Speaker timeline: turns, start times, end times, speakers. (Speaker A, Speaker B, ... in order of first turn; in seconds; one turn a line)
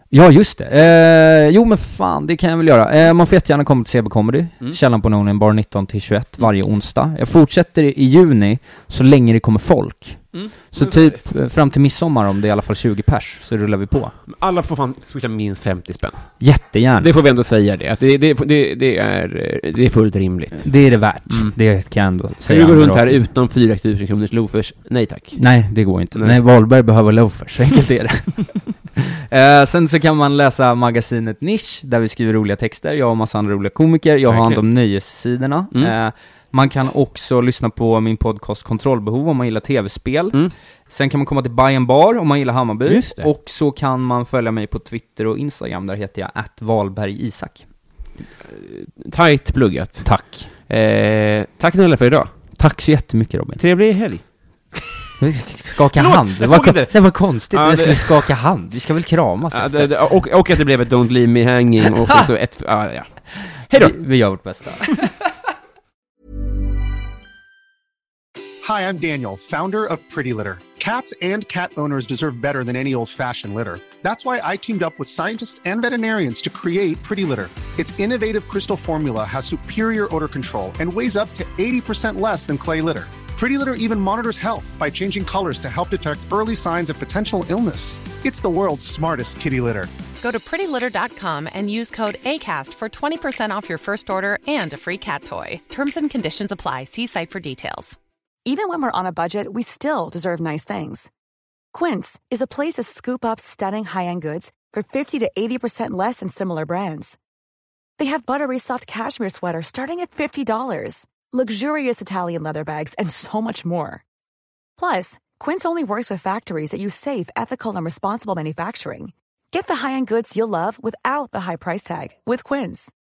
Speaker A: 0.1-14.2
Speaker B: 10.3-11.2
Speaker B: 14.3-16.4
Speaker A: 16.4-17.1
Speaker B: 17.0-20.7
Speaker A: 20.6-23.1
Speaker B: 21.3-21.5
Speaker B: 22.5-25.4
Speaker A: 25.3-47.6
Speaker B: 34.3-34.6
Speaker B: 42.9-43.3
Speaker B: 48.4-50.1
Speaker A: 50.0-50.5
Speaker B: 50.7-52.3
Speaker A: 52.5-53.6
Speaker B: 53.6-54.2
Speaker A: 55.2-59.9
Speaker B: 55.9-58.2
Speaker B: 59.5-64.0
Speaker A: 63.7-65.1
Speaker C: 68.6-89.9
Speaker D: 90.2-98.0
Speaker E: 98.4-101.1
Speaker E: 101.7-107.2
Speaker E: 108.0-114.0
Speaker E: 114.8-122.9